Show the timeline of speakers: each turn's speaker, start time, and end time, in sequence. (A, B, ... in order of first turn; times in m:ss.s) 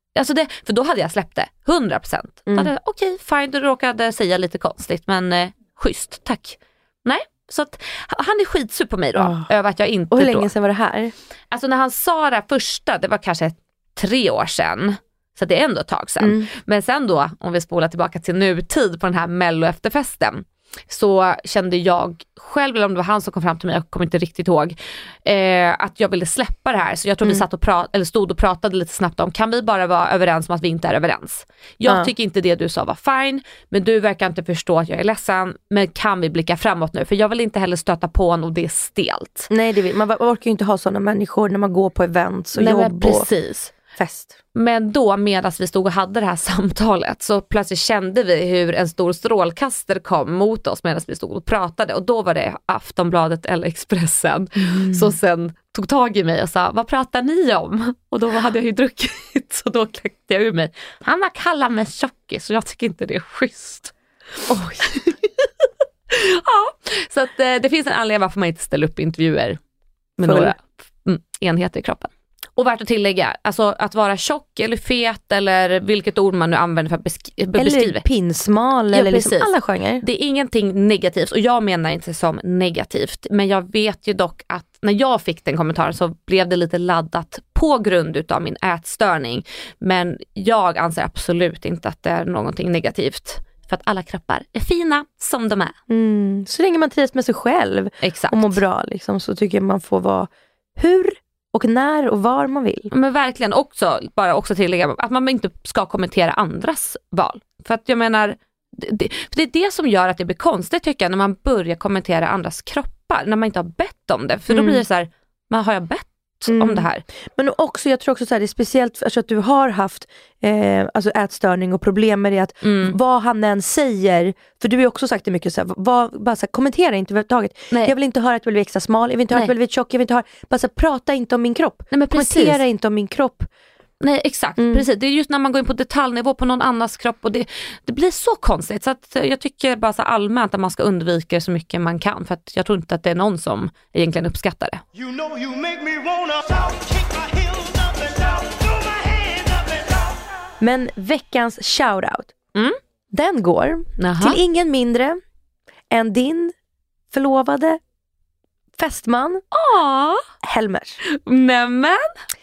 0:00.1-0:10.5 A
0:09.1-0:09.5 B
0:10.1-0:11.1 B
0:11.5-0:39.5 A
0:16.2-0:16.5 B
0:31.8-0:32.1 B
0:39.5-0:43.3 B
0:42.5-0:43.8 A
0:43.8-0:44.4 B
0:44.5-1:03.9 A
0:54.6-0:55.1 B
1:04.5-1:04.9 B
1:06.1-1:09.6 A
1:10.2-1:18.0 A
1:10.2-1:10.5 B
1:17.6-1:20.0 B
1:18.9-1:35.8 A
1:35.9-1:42.9 B
1:38.0-1:38.6 A
1:42.9-1:57.0 A
1:54.5-1:54.8 B
1:56.5-2:13.5 B
2:02.6-2:03.0 A
2:11.9-2:12.6 A
2:14.0-2:24.8 A
2:14.6-2:14.8 B
2:24.9-2:30.2 C
2:30.6-2:32.3 B
2:33.1-2:35.2 B
2:34.0-2:34.4 A
2:35.9-2:36.5 B
2:37.1-2:37.8 B
2:38.8-2:39.4 B
2:39.5-2:40.2 A
2:40.4-2:41.0 B
2:41.1-2:42.1 A